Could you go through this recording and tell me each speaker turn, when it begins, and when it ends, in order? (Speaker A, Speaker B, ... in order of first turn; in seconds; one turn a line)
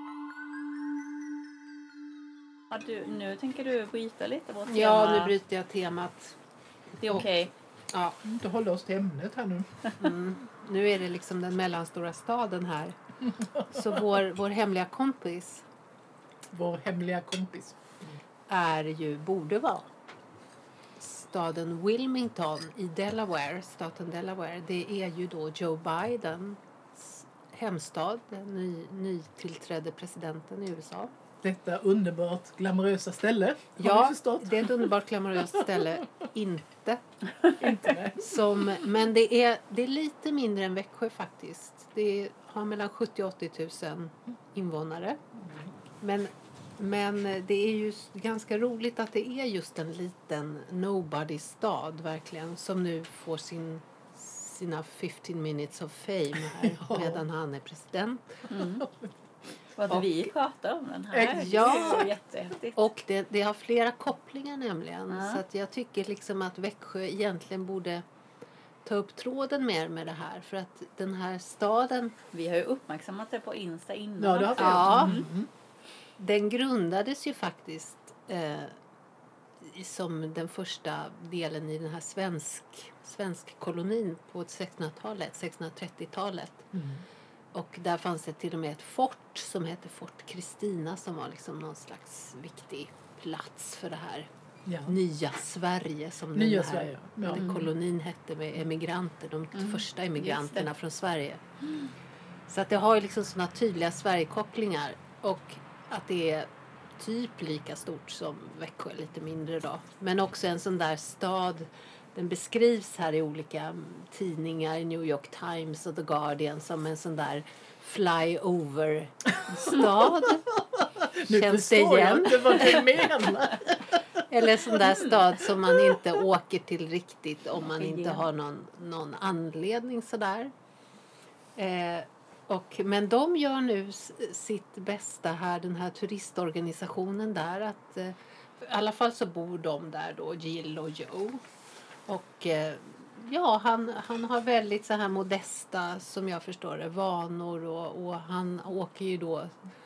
Speaker A: 2.7-5.3
Speaker B: 4.7-6.3
Speaker A: 7.0-7.5
Speaker B: 7.9-8.2
Speaker C: 8.2-9.7
Speaker B: 10.0-13.0
Speaker C: 13.4-14.0
Speaker B: 13.6-15.6
Speaker C: 16.5-18.1
Speaker B: 18.5-19.9
Speaker B: 21.0-31.1
Speaker C: 31.4-34.9
Speaker B: 33.8-37.0
Speaker C: 37.6-38.4
Speaker B: 38.2-45.2
Speaker C: 45.4-45.7
Speaker B: 46.0-58.5
Speaker C: 56.5-57.2
Speaker A: 58.5-58.9
Speaker C: 58.6-59.1
Speaker A: 59.8-62.8
Speaker B: 59.9-60.3
Speaker C: 61.1-62.1
Speaker B: 61.3-62.1
Speaker B: 62.8-68.0
Speaker A: 65.1-65.4
Speaker B: 68.8-72.2
Speaker A: 72.3-75.2
Speaker C: 74.2-75.5
Speaker B: 74.5-75.3
Speaker B: 76.2-78.7
Speaker B: 79.6-86.7
Speaker C: 86.7-87.0
Speaker B: 87.5-94.3
Speaker C: 94.7-94.9
Speaker B: 94.8-101.4
Speaker C: 96.3-97.5
Speaker A: 97.3-97.6
Speaker A: 99.5-100.7
Speaker B: 102.5-120.5
Speaker C: 119.5-124.8
Speaker B: 121.2-123.0
Speaker B: 124.3-130.5
Speaker A: 127.6-128.2
Speaker B: 131.6-141.4
Speaker B: 142.1-149.5